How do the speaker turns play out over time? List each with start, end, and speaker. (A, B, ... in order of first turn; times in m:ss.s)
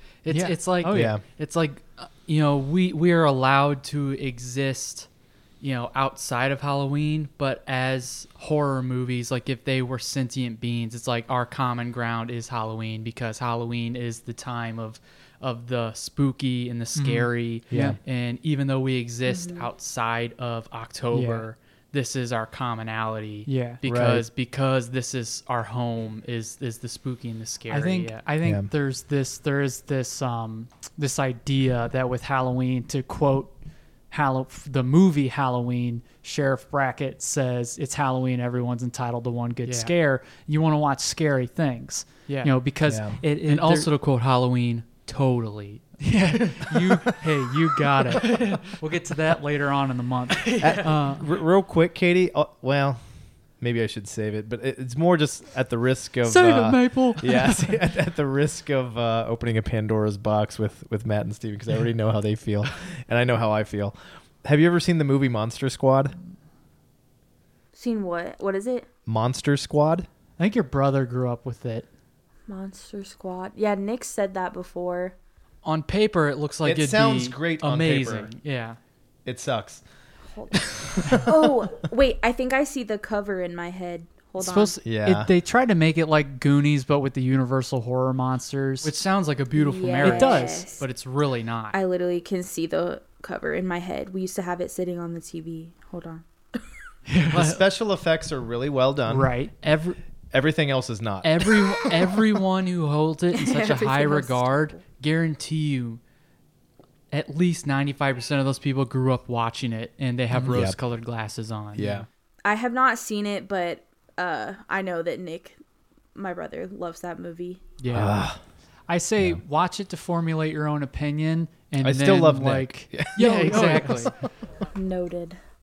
0:00.2-0:05.1 A
0:00.3-0:01.2 B
0:00.9-0:01.2 C
0:05.6-0:28.2 A
0:17.0-0:18.0 B
0:17.7-0:18.0 C
0:19.3-0:19.7 D
0:21.1-0:21.4 B
0:23.5-0:23.8 B
0:23.8-0:24.3 C
0:27.7-0:33.6 B
0:28.4-0:28.7 C
0:34.1-0:43.9 B
0:39.7-0:39.9 A
0:42.3-0:42.5 A
0:42.9-0:43.2 C
0:43.5-0:46.9 A
0:46.0-0:51.2 B
0:48.2-0:48.8 A
0:50.4-0:50.9 A
0:50.6-0:53.0 C
0:53.6-1:06.2 C
0:56.2-0:57.7 A
1:07.7-1:08.9 D
1:09.1-1:10.1 C
1:10.4-1:11.9 B
1:12.5-1:15.2 D
1:15.6-1:18.8 A
1:16.6-1:18.3 C
1:19.2-1:19.8 C
1:20.3-1:24.8 D
1:20.8-1:21.2 C
1:24.4-1:28.9 B
1:24.8-1:25.3 C
1:28.8-1:31.8 A
1:29.5-1:30.8 D
1:30.0-1:30.7 B
1:31.7-1:36.2 D
1:37.1-1:37.6 A
1:37.3-1:39.3 C
1:39.1-1:40.0 B
1:40.3-1:42.2 C
1:41.2-1:46.0 A
1:43.3-1:44.8 D
1:47.1-1:52.0 A
1:50.4-1:50.8 C
1:51.7-1:52.1 C
1:52.4-1:55.6 D
1:56.2-1:57.6 D
1:57.8-1:58.2 A
1:57.9-1:58.4 C
1:58.9-2:04.1 B
2:01.8-2:04.3 C
2:03.2-2:04.1 A
2:04.7-2:05.4 D